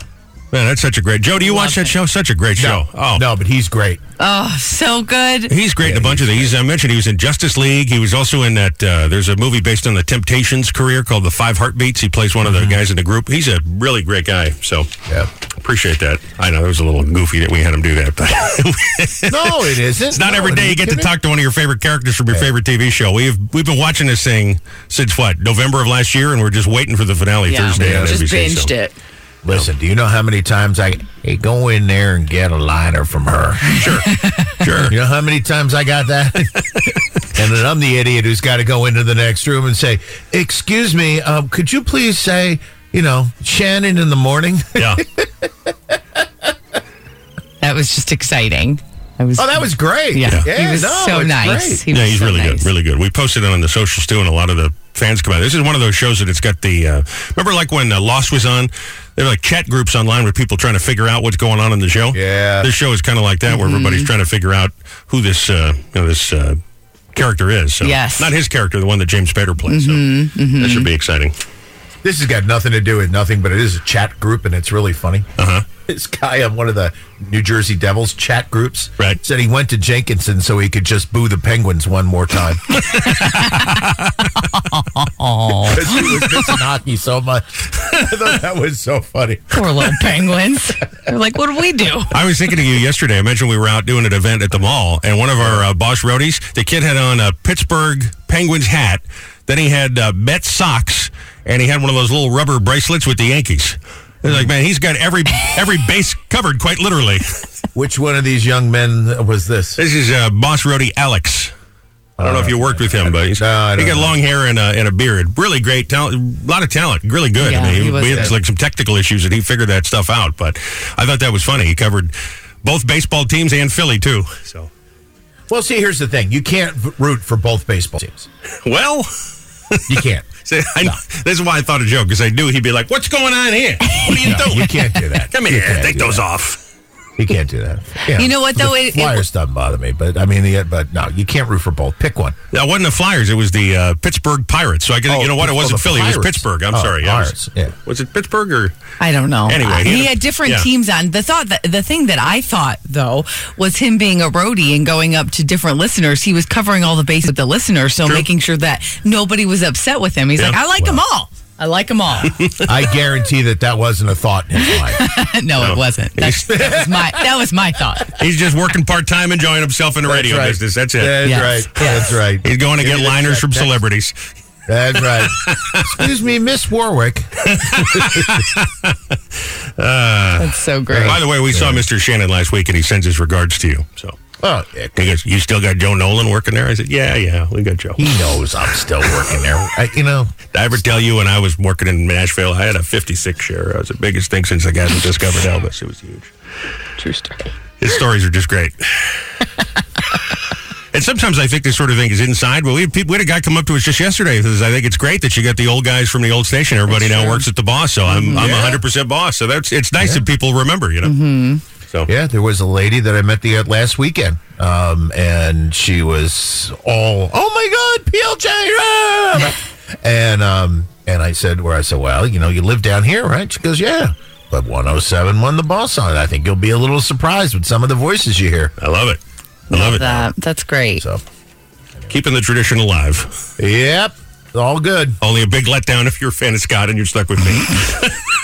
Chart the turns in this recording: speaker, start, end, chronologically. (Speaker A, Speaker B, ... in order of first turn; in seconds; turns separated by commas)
Speaker A: 0.5-3.2, Speaker B: 1.4-1.9, Speaker C: 2.6-4.0, Speaker B: 4.2-5.5, Speaker A: 5.5-14.9, Speaker C: 5.8-6.5, Speaker C: 12.4-12.7, Speaker A: 15.6-19.3, Speaker C: 19.3-21.1, Speaker A: 20.1-28.7, Speaker B: 27.5-28.9, Speaker C: 27.8-28.2, Speaker C: 29.4-33.8, Speaker A: 33.8-34.0, Speaker A: 34.6-34.9, Speaker C: 34.9-36.5, Speaker C: 37.3-45.9, Speaker B: 47.6-52.7, Speaker C: 49.4-51.8, Speaker A: 51.9-66.6, Speaker C: 62.1-62.7, Speaker B: 63.5-64.1, Speaker A: 67.1-70.0, Speaker B: 67.8-68.3, Speaker B: 69.7-70.9, Speaker A: 70.6-71.3, Speaker C: 72.0-75.3, Speaker A: 75.4-75.6, Speaker C: 75.9-82.6, Speaker A: 82.9-83.8, Speaker B: 84.5-86.4, Speaker C: 85.6-89.7, Speaker B: 89.5-92.1, Speaker A: 92.1-107.2, Speaker C: 107.7-109.8, Speaker A: 109.8-111.5, Speaker C: 112.2-114.2, Speaker A: 112.2-122.1, Speaker B: 117.4-118.3, Speaker C: 118.0-118.3, Speaker A: 122.6-124.7, Speaker C: 125.5-128.3, Speaker A: 128.6-129.1, Speaker C: 129.9-130.3, Speaker A: 130.4-134.6, Speaker B: 133.9-134.8, Speaker C: 134.1-136.2, Speaker A: 135.3-136.6, Speaker C: 137.2-142.4, Speaker B: 138.1-139.2, Speaker A: 142.5-147.3, Speaker C: 145.1-147.7, Speaker A: 147.9-148.7, Speaker B: 149.0-162.4, Speaker A: 149.5-150.7, Speaker C: 162.7-165.1, Speaker B: 164.6-168.1, Speaker A: 165.6-166.5, Speaker C: 166.4-167.2, Speaker A: 168.2-171.4, Speaker C: 170.1-173.8, Speaker B: 171.2-172.1, Speaker A: 172.4-174.2, Speaker C: 174.7-178.4, Speaker A: 177.7-178.9, Speaker A: 179.8-184.2, Speaker B: 180.4-181.2, Speaker C: 180.9-181.9, Speaker C: 184.4-185.1, Speaker A: 185.0-188.0, Speaker C: 188.0-190.3, Speaker A: 190.5-196.3, Speaker B: 197.0-197.5, Speaker A: 197.8-198.8, Speaker A: 200.9-211.1, Speaker B: 206.9-207.4, Speaker B: 208.1-208.5, Speaker B: 211.0-211.6, Speaker C: 212.1-228.7, Speaker A: 228.8-229.2, Speaker A: 229.7-230.2, Speaker B: 229.7-231.0, Speaker C: 229.9-230.2, Speaker C: 231.0-231.2, Speaker A: 232.1-233.3, Speaker C: 233.6-235.2, Speaker A: 235.2-238.1